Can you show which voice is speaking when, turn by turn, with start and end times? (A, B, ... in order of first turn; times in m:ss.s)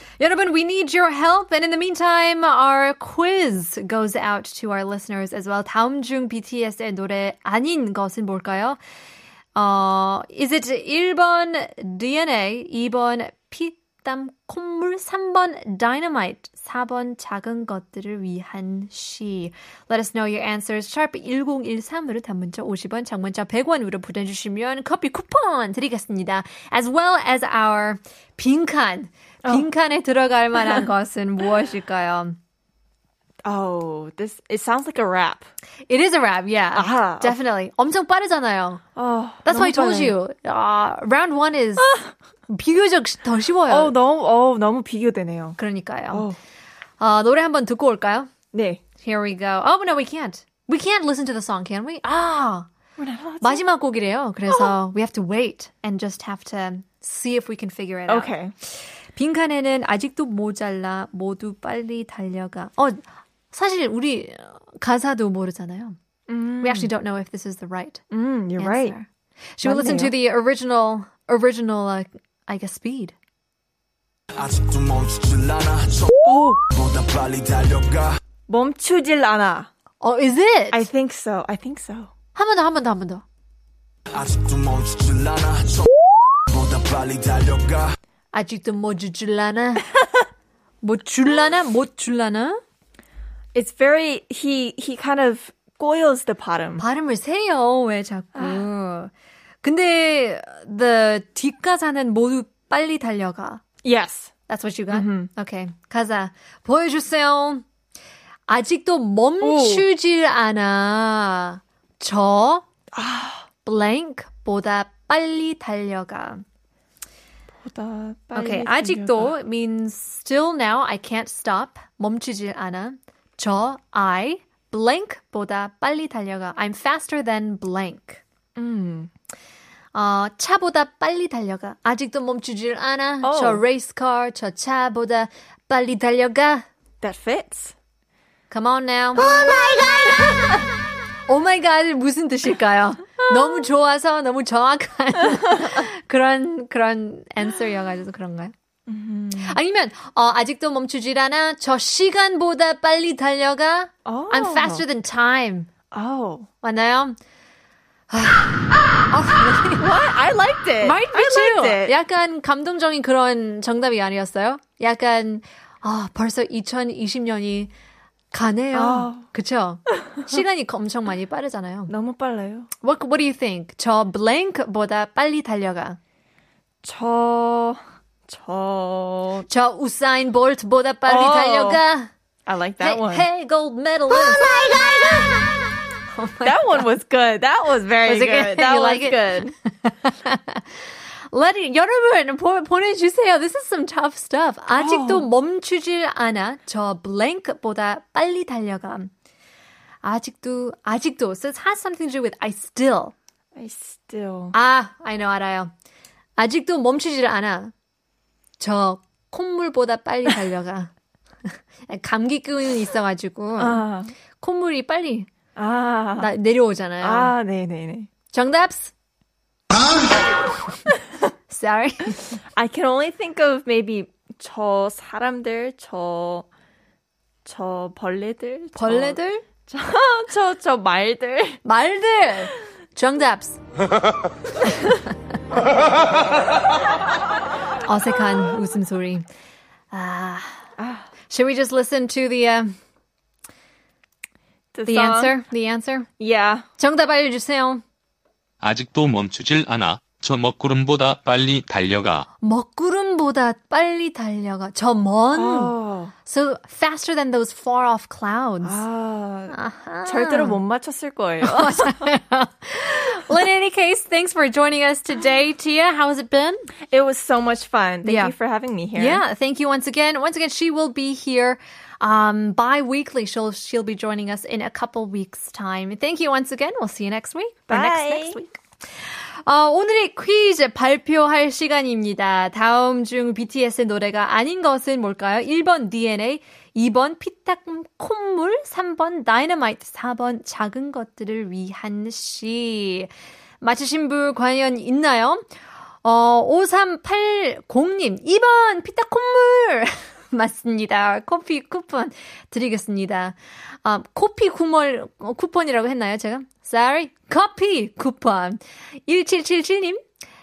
0:00.2-0:08.8 A
0:09.5-0:32.4 A
0:33.4-0:35.5 B
0:35.9-0:38.8 A
0:36.7-0:37.4 B
0:39.0-0:40.2 B
0:39.4-0:41.9 A
0:42.5-0:43.9 A
0:43.7-0:45.6 B
0:45.6-0:46.3 A
0:47.0-0:48.3 A
0:48.5-0:48.8 B
0:49.0-0:52.7 A
0:53.0-0:53.6 B
0:53.4-0:58.3 A
0:58.1-0:58.5 B
0:59.1-1:06.0 A
1:06.3-1:06.9 B
1:06.6-1:08.0 A
1:08.1-1:09.0 B
1:08.6-1:13.1 A
1:09.6-1:10.1 B
1:14.4-1:16.0 C
1:16.2-1:16.6 B
1:16.8-1:18.1 C
1:18.5-1:19.7 B
1:20.0-1:20.8 A
1:20.7-1:22.1 B
1:22.4-1:23.2 A
1:24.2-1:25.7 C
1:26.5-1:27.8 C
1:28.3-1:29.9 A
1:30.8-1:32.6 A
1:33.5-1:36.8 B
1:36.8-1:39.1 A
1:38.3-1:38.6 B
1:39.6-1:43.6 A
1:43.8-1:44.3 B
1:44.5-1:47.6 A
1:44.9-1:45.3 B
1:48.5-1:52.6 A
1:49.4-1:49.9 B
1:52.9-1:53.4 B
1:53.6-1:56.4 A
1:57.6-1:59.3 B
1:58.3-2:08.2 A
2:08.6-2:09.1 B
2:09.9-2:16.6 A
2:13.2-2:13.6 B
2:17.0-2:17.7 B
2:18.5-2:19.4 A
2:19.3-2:20.1 B
2:21.3-2:28.5 A
2:28.9-2:29.6 B
2:29.4-2:35.7 A
2:34.0-2:34.8 B
2:35.9-2:36.5 B
2:36.6-2:37.2 A
2:38.1-2:39.9 A
2:39.8-2:41.9 B
2:40.8-2:47.7 A
2:48.3-2:51.9 A
2:48.7-2:49.2 B
2:51.9-2:52.7 B
2:52.8-2:56.0 A
2:56.8-2:59.4 B
2:59.5-3:02.1 A
3:01.1-3:01.8 B
3:02.4-3:03.3 B
3:02.8-3:05.4 A
3:06.1-3:06.8 A
3:06.4-3:09.5 B
3:08.0-3:10.6 A
3:11.3-3:19.1 A
3:14.8-3:15.3 B
3:20.0-3:23.1 A
3:23.5-3:24.5 B
3:24.5-3:25.7 A
3:26.4-3:27.7 A
3:28.6-3:30.9 A
3:31.9-3:33.8 A
3:33.6-3:34.1 B
3:34.4-3:35.3 A
3:35.6-3:36.3 B
3:36.2-3:37.3 A
3:37.0-3:38.1 B
3:38.3-3:38.9 A
3:41.5-3:42.3 A
3:42.5-3:46.4 B
3:47.4-3:51.6 B
3:48.7-3:49.4 A
3:51.6-3:53.6 A
3:57.8-3:59.2 A
3:59.9-4:00.7 A
4:00.8-4:01.1 B
4:01.3-4:02.7 A
4:04.7-4:05.3 B
4:04.8-4:06.1 A
4:06.2-4:06.6 B
4:06.8-4:07.8 A
4:08.6-4:12.2 D
4:12.4-4:18.8 A
4:15.3-4:16.1 B
4:18.6-4:22.1 B
4:19.5-4:20.6 A
4:21.4-4:26.7 A
4:26.9-4:29.2 B
4:28.0-4:28.3 A
4:28.9-4:38.6 A
4:37.7-4:38.4 B
4:39.4-4:55.4 A
4:56.0-5:10.0 A